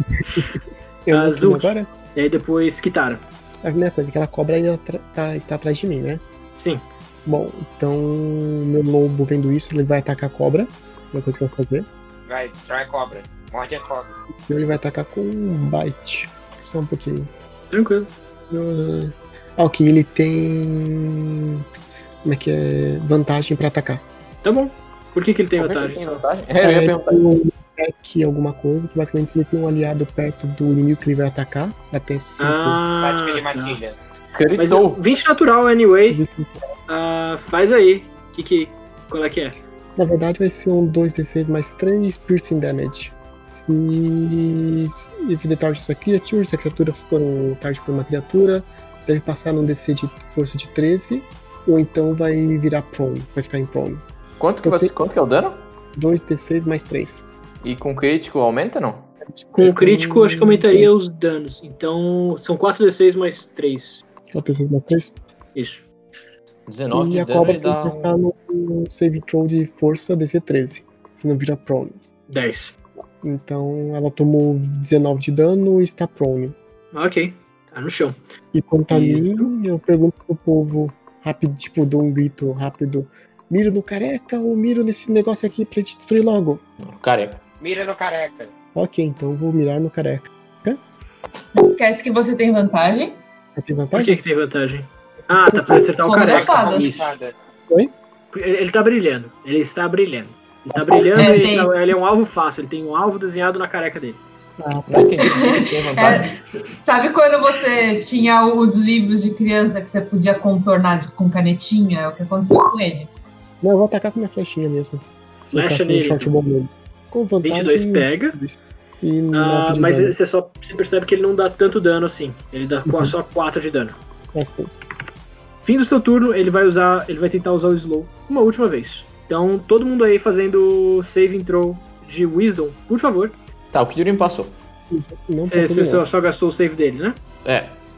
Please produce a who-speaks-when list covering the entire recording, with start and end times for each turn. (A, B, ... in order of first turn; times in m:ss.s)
0:00.2-0:00.5 A
0:01.0-0:01.9 A
0:01.1-0:03.2 B
0:03.6-0:06.2 A
0:06.6-0:06.8 B
0:07.2-0:11.9 A
0:12.2-0:14.1 C
0:14.4-0:17.3 A
0:17.7-0:18.1 B
0:18.5-0:21.6 A
0:22.2-0:24.0 A
0:24.4-0:26.2 B
0:25.6-0:27.2 D
0:26.6-0:32.8 A
0:32.4-0:33.8 B
0:33.0-0:34.0 C
0:34.3-0:35.0 D
0:34.6-0:36.2 B
0:36.1-0:36.6 A
0:36.9-0:39.6 B
0:40.0-0:54.0 A
0:54.4-0:55.6 D
0:54.6-0:54.9 A
0:56.0-0:57.2 A
0:57.6-0:59.1 D
0:59.2-1:00.9 A
0:59.5-1:04.0 B
1:04.3-1:05.2 A
1:05.5-1:05.8 B
1:06.7-1:08.1 D
1:06.9-1:12.0 A
1:12.3-1:12.7 B
1:13.2-1:16.6 A
1:16.9-1:18.2 B
1:18.5-1:26.6 A
1:18.9-1:19.5 B
1:26.8-1:27.4 D
1:27.6-1:28.5 C
1:28.7-1:30.8 A
1:31.6-1:33.2 E
1:33.6-1:34.2 A
1:33.9-1:37.1 B
1:35.3-1:35.9 A
1:36.0-1:36.8 E
1:36.2-1:37.3 C
1:38.3-1:44.2 B
1:40.8-1:41.3 A
1:41.2-1:41.7 E
1:44.6-1:45.0 A
1:44.9-1:46.3 D
1:45.3-1:53.1 E
1:53.6-2:00.2 A
1:55.5-1:56.3 B
1:57.4-1:58.4 B
1:59.3-2:04.0 B
2:02.8-2:03.1 A
2:04.3-2:04.7 A
2:05.6-2:13.3 B
2:13.7-2:14.6 D
2:14.9-2:16.1 A
2:15.4-2:17.2 B
2:17.4-2:17.8 D